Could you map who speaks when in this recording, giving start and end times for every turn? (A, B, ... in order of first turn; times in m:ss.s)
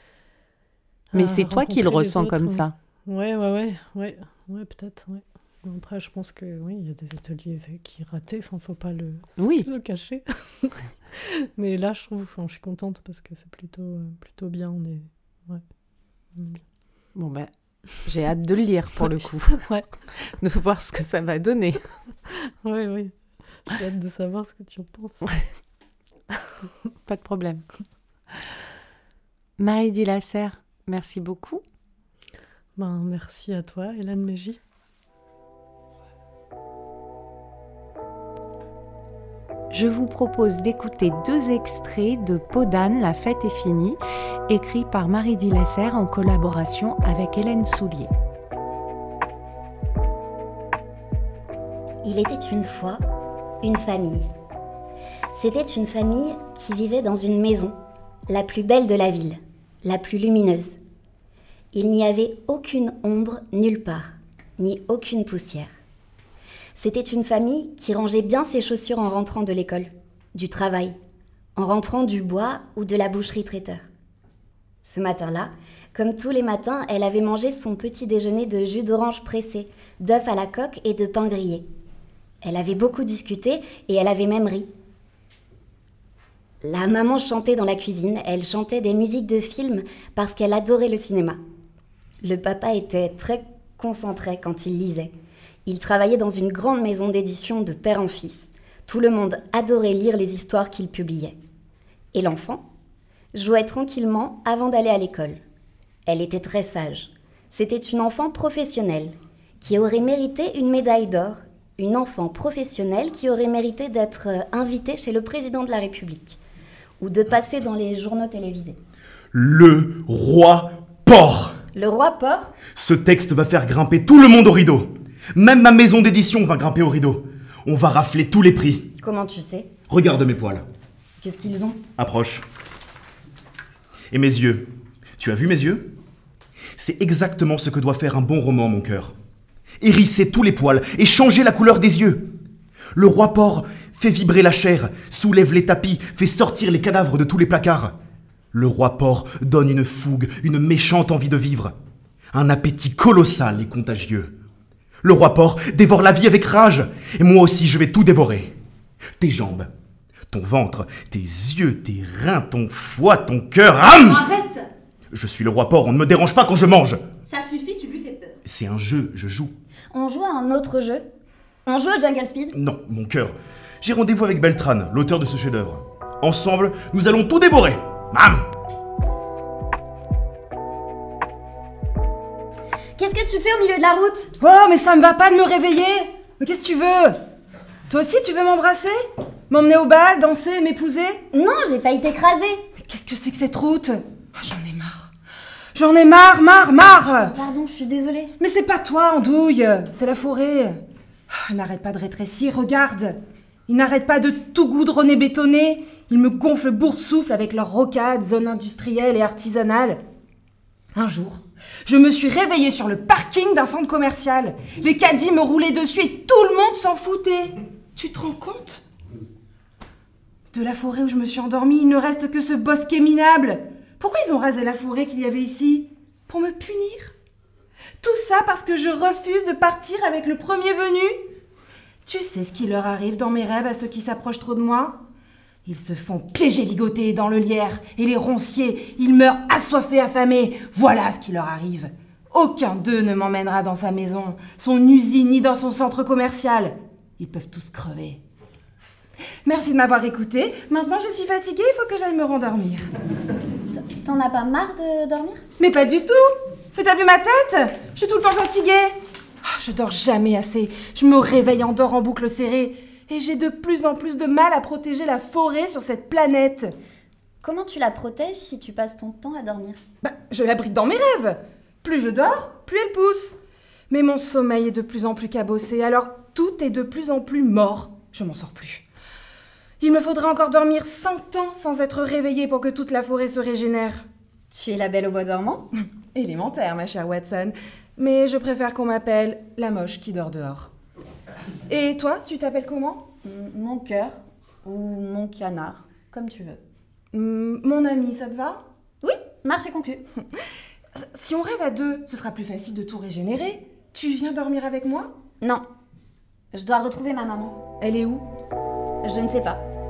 0:01.1-0:15.6 A
0:01.2-0:02.7 B
0:09.4-0:09.7 B
0:16.4-0:16.6 A
0:17.2-0:21.9 B
0:19.6-0:19.9 A
0:22.6-0:25.5 A
0:27.1-0:27.7 B
0:29.6-0:31.6 B
0:32.8-0:34.6 A
0:39.7-0:48.1 B
0:52.0-0:53.0 C
0:53.6-0:54.3 C
0:55.3-0:57.8 C
0:58.3-1:00.8 C
1:01.7-1:05.7 C
1:06.8-1:11.0 C
1:11.6-1:13.9 C
1:14.8-1:21.6 C
1:22.4-1:24.7 C
1:26.6-1:31.4 C
1:32.2-1:35.1 C
1:35.7-1:41.4 C
1:42.1-1:42.6 C
1:43.3-1:45.4 C
1:46.1-1:56.4 C
1:57.0-1:58.8 C
1:59.3-2:01.6 D
2:01.7-2:02.6 C
2:02.8-2:08.9 D
2:09.0-2:09.7 C
2:09.9-2:10.6 D
2:11.2-2:11.8 C
2:12.0-2:12.4 D
2:14.1-2:14.7 D
2:15.2-2:15.9 D
2:16.8-2:19.1 D
2:19.8-2:22.3 D
2:23.0-2:27.9 D
2:28.5-2:31.7 D
2:32.3-2:34.4 D
2:35.0-2:38.5 D
2:39.2-2:39.7 D
2:40.3-2:44.4 D
2:45.1-2:47.0 D
2:47.3-2:48.4 C
2:48.4-2:49.5 D
2:49.9-2:51.0 C
2:51.7-2:52.6 C
2:52.5-2:58.4 D
3:03.0-3:04.3 C
3:04.4-3:07.2 E
3:07.9-3:09.0 E
3:09.5-3:11.2 E
3:11.3-3:12.7 C
3:12.8-3:15.1 E
3:15.8-3:17.3 E
3:17.3-3:18.3 C
3:18.4-3:30.0 E
3:31.0-3:38.8 E
3:40.5-3:47.1 E
3:48.0-3:51.2 E
3:52.0-3:55.0 E
3:55.6-4:08.2 E
4:09.4-4:12.9 E
4:13.7-4:15.4 C
4:15.6-4:26.7 E
4:27.4-4:29.8 C
4:30.0-4:33.4 E
4:33.9-4:38.8 E
4:39.8-4:44.0 E
4:44.5-4:45.7 C
4:46.1-4:50.7 E
4:51.7-4:53.1 E
4:53.2-4:56.6 C
4:57.1-4:58.6 E
4:59.0-5:00.0 C
5:01.0-5:05.1 E
5:06.5-5:07.6 C
5:07.8-5:08.3 E
5:09.0-5:09.6 C